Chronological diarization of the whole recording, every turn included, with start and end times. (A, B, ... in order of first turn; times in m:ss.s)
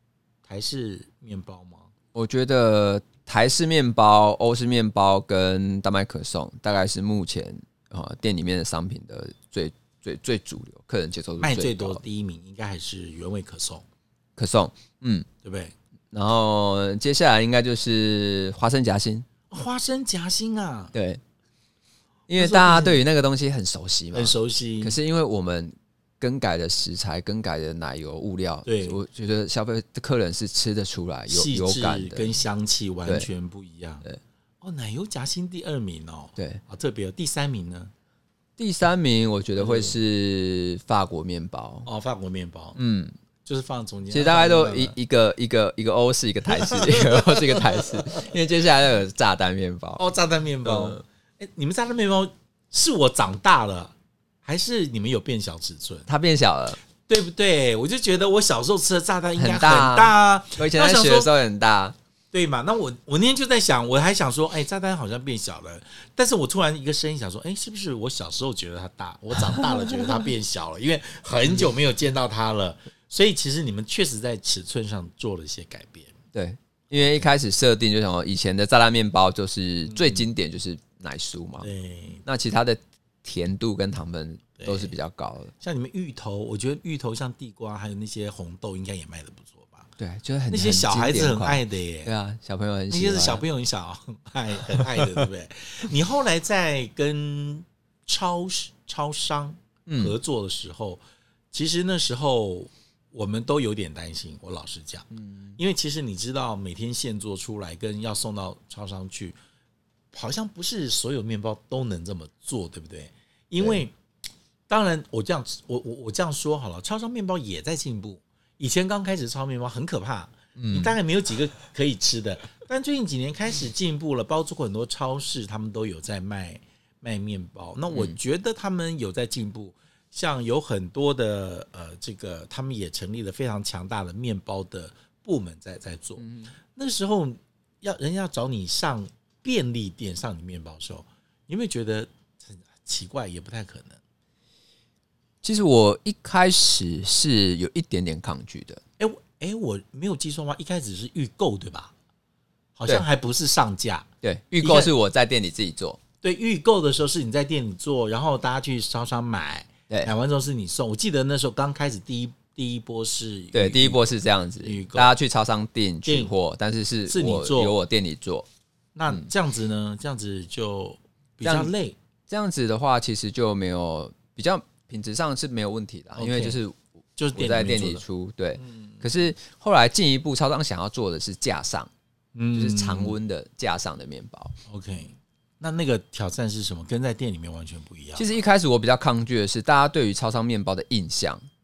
0:00.4-0:01.9 A
0:02.1-0:12.0 B
0:11.4-0:13.8 A
0:14.4-0:15.3 B
0:15.4-0:15.7 A
0:16.1-0:19.3 B
0:19.5-0:20.9 A
0:20.9-0:21.2 B
0:22.3-0:32.3 B
0:22.4-0:23.0 A
0:24.1-0:25.0 A
0:28.6-0:29.0 A
0:31.3-0:34.0 A
0:34.6-0:37.9 A
0:38.6-0:41.9 B
0:39.6-0:40.0 A
0:41.8-0:42.8 A
0:42.8-0:43.1 B
0:43.4-0:44.9 A
0:44.1-0:50.0 B
0:46.5-0:48.3 A
0:50.0-0:53.9 A
0:50.6-0:51.0 B
0:54.4-0:56.1 A
0:56.1-0:56.8 B
0:57.0-1:01.3 A
0:59.4-1:02.0 B
1:02.3-1:16.1 A
1:09.6-1:10.2 B
1:16.3-1:21.7 B
1:16.9-1:17.2 A
1:19.9-1:20.2 A
1:21.6-1:22.2 A
1:22.2-1:25.5 B
1:24.6-1:25.0 A
1:25.6-1:29.9 A
1:30.0-1:33.4 B
1:30.5-1:32.1 A
1:32.9-1:41.0 A
1:34.8-1:35.0 B
1:39.8-1:40.2 B
1:41.5-1:49.4 A
1:45.1-1:45.6 B
1:50.1-1:53.9 A
1:54.7-2:24.0 A
2:00.6-2:01.0 B
2:07.9-2:08.2 B
2:16.2-2:16.5 B
2:25.4-2:28.8 B
2:29.0-2:31.9 A
2:32.8-2:34.1 A
2:34.2-2:36.0 B
2:34.6-2:34.9 A
2:36.2-2:44.0 A
2:43.5-2:48.5 B
2:44.6-2:45.1 A
2:46.0-2:46.3 A
2:47.1-2:47.8 A
2:48.9-2:51.9 A
2:51.4-2:51.7 B
2:52.3-2:56.8 B
2:56.2-2:56.6 A
2:57.2-2:58.0 A
2:57.3-3:01.9 B
2:58.6-2:59.0 A
3:02.3-3:03.2 A
3:02.5-3:04.6 B
3:04.7-3:08.3 A
3:08.2-3:11.4 B